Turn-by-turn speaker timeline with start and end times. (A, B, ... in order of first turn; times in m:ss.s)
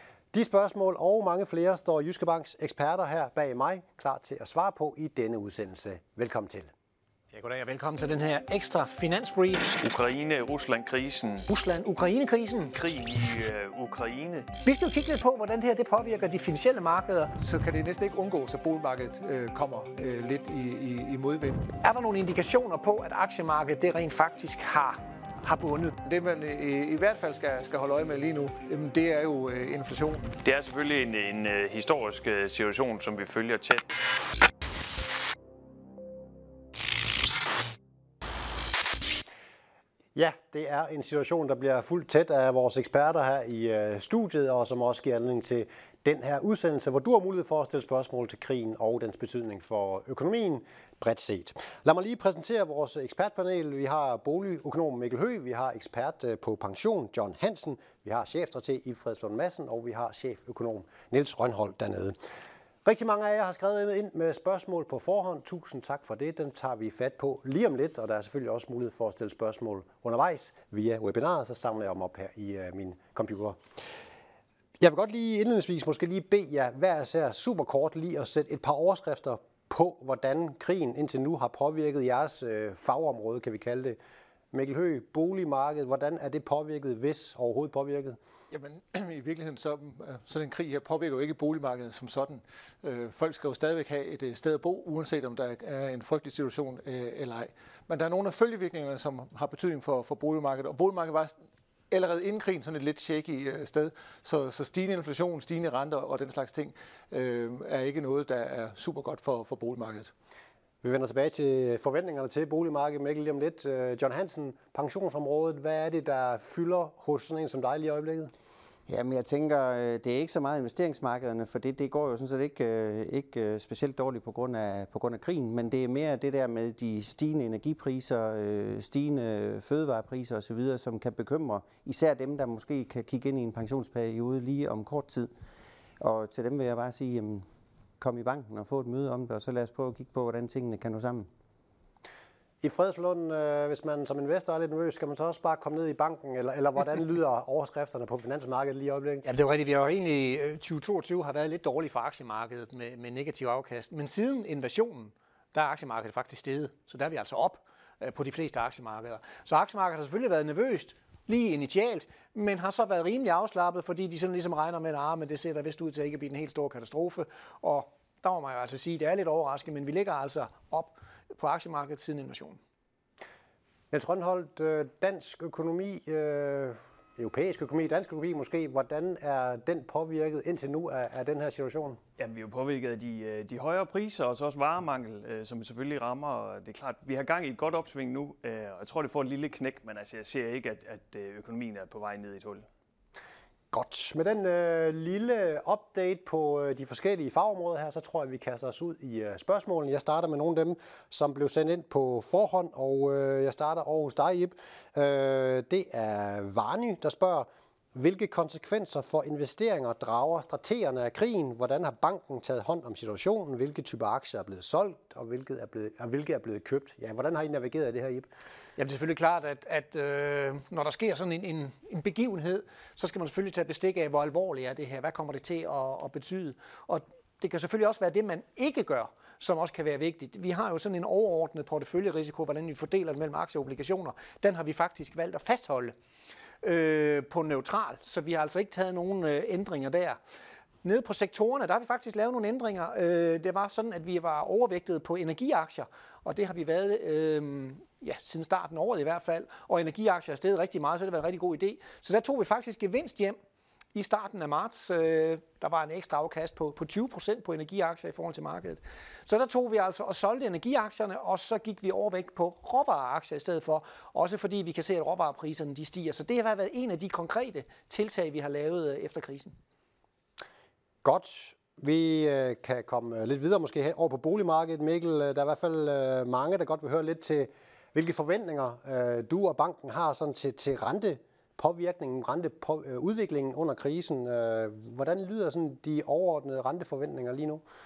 0:00.3-0:06.7 A
0:07.3-0:09.7 B
0:09.8-0:11.5 C
0:11.5-0:12.7 B
0:12.7-0:14.5 C
0:14.6-0:17.4 B
0:17.4-0:21.7 D
0:21.8-0:26.0 B
0:26.0-0:30.3 D
0:30.4-0:34.0 C
0:40.2-1:02.2 A
1:02.8-1:13.6 A
1:14.8-1:24.0 A
1:24.5-1:28.2 A
1:28.5-1:41.4 D
1:41.9-1:50.1 D
1:50.8-1:58.3 A
1:58.9-2:15.3 E
2:16.0-2:17.4 E
2:18.0-2:21.3 E
2:22.6-2:29.2 A
2:29.2-2:52.6 B
2:53.9-3:02.0 A
3:02.2-3:12.7 C
3:13.7-3:38.3 A
3:38.8-3:56.0 B
3:56.6-4:00.2 B
4:00.8-4:13.4 B
4:13.9-4:29.6 B
4:31.0-4:47.6 A